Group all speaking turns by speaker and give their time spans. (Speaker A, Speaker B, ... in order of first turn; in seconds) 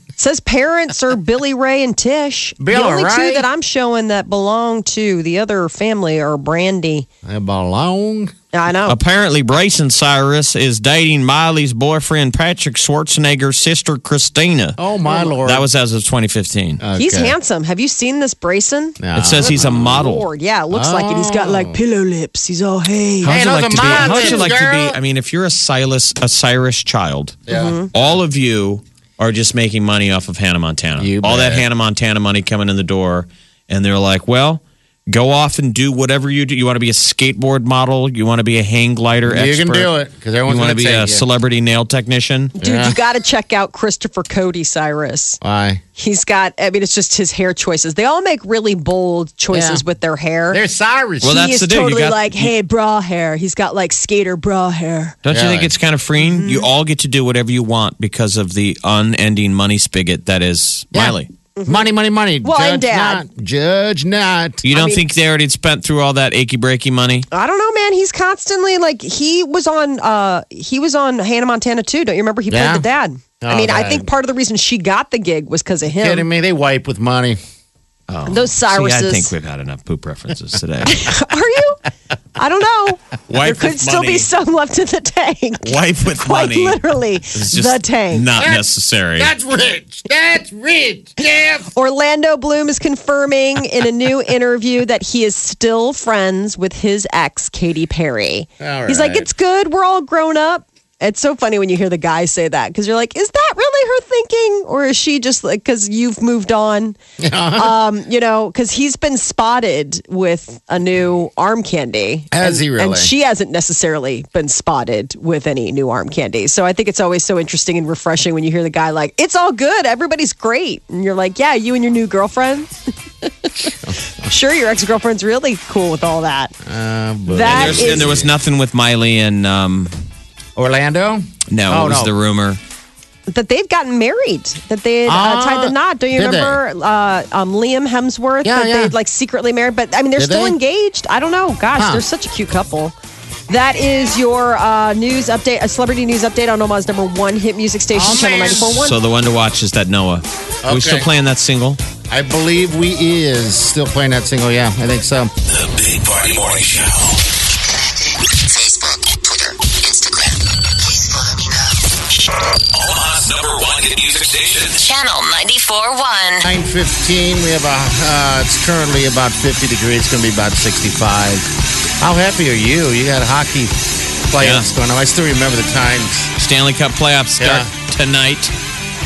Speaker A: 0.2-7.1, 8.5-9.0, 15.0-15.3, 16.9-24.5, 27.5-27.9, 42.6-45.4, 46.0-50.6, 51.2-55.2, 56.2-56.7, 61.6-61.9, 62.4-63.2, 64.7-65.1, 67.3-76.3, 78.3-79.3, 80.9-81.8, 82.3-88.3, 91.7-107.0, 107.5-122.7, 124.2-126.5, 127.3-128.1, 133.3-142.9, 143.5-149.0
Speaker B: 2.6-3.5, 7.2-8.3, 14.8-15.7, 16.8-17.4, 19.0-20.0, 20.7-21.8, 23.2-25.0, 27.5-27.8, 31.0-31.7, 39.2-41.2, 42.6-43.0, 45.4-45.8, 49.5-49.8, 50.5-51.4, 55.3-55.7, 60.9-64.6, 72.5-72.8, 73.4-74.1, 76.0-77.4, 88.4-88.7, 89.2-91.7, 98.6-99.3, 107.2-107.8, 112.3-113.1, 126.7-128.3, 130.6-132.1, 135.1-136.6, 138.4-138.9, 140.2-140.6, 141.8-142.1, 147.9-148.8, 150.6-151.1, 152.1-155.3, 166.4-171.5, 172.0-176.3, 177.4-177.7
Speaker C: 8.9-14.8, 15.4-16.8, 19.2-20.3, 23.2-42.5, 51.2-52.5, 55.2-61.3, 64.6-67.3, 78.1-81.1, 83.3-84.3, 85.6-86.8, 87.3-89.3, 127.5-129.9, 131.5-132.6, 148.8-151.8, 174.4-174.7, 176.4-178.5
Speaker D: 155.5-157.1, 162.8-164.8
Speaker E: 158.5-160.4, 160.9-161.6, 164.8-166.4